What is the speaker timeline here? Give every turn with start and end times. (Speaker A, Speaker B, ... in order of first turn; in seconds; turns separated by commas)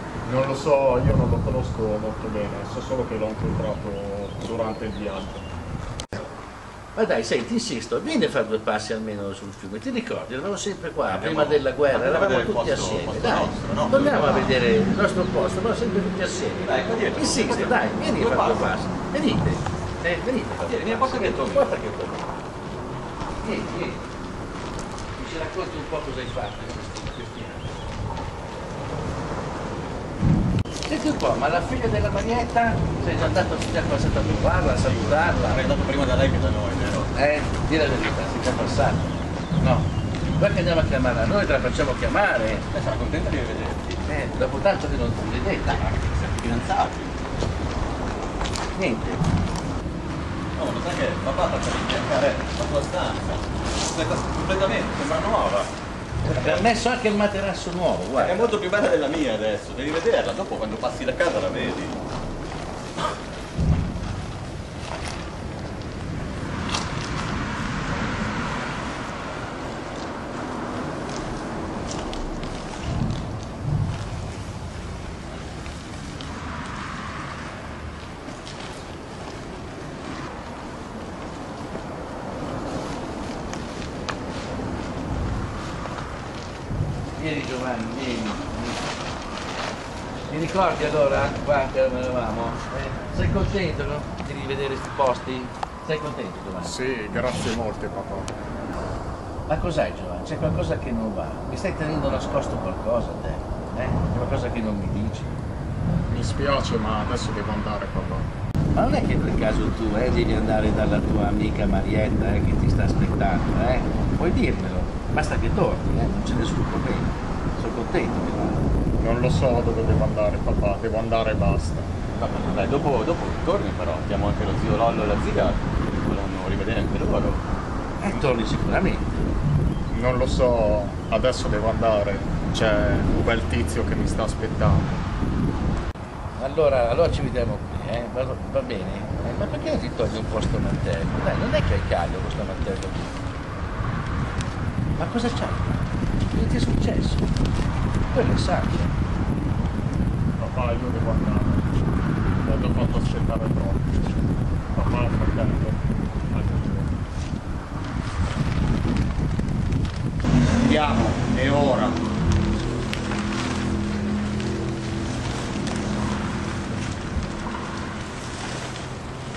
Speaker A: 0.2-5.4, Speaker B: 6.9-22.2, Speaker C: 11.1-14.5, Speaker C: 16.6-18.7, Speaker C: 20.6-21.8, Speaker B: 23.4-24.0, Speaker B: 25.1-27.8, Speaker B: 30.9-35.7, Speaker C: 34.6-37.1, Speaker B: 37.1-42.6, Speaker C: 42.7-44.0, Speaker B: 44.0-45.8, Speaker C: 45.6-47.1, Speaker B: 48.7-49.2, Speaker C: 50.5-55.7, Speaker B: 56.2-58.6, Speaker C: 56.2-56.7, Speaker C: 58.2-62.0, Speaker B: 87.2-88.9, Speaker B: 90.3-96.8, Speaker A: 96.6-98.3, Speaker B: 99.5-105.3, Speaker A: 106.1-108.3, Speaker B: 108.7-118.7, Speaker A: 119.0-121.9, Speaker C: 122.1-127.4, Speaker B: 128.0-129.3, Speaker A: 129.9-135.0, Speaker B: 136.4-143.2, Speaker B: 145.0-147.3, Speaker B: 148.1-148.9, Speaker A: 150.4-151.8, Speaker A: 152.4-154.1, Speaker A: 154.7-157.0, Speaker A: 160.6-162.1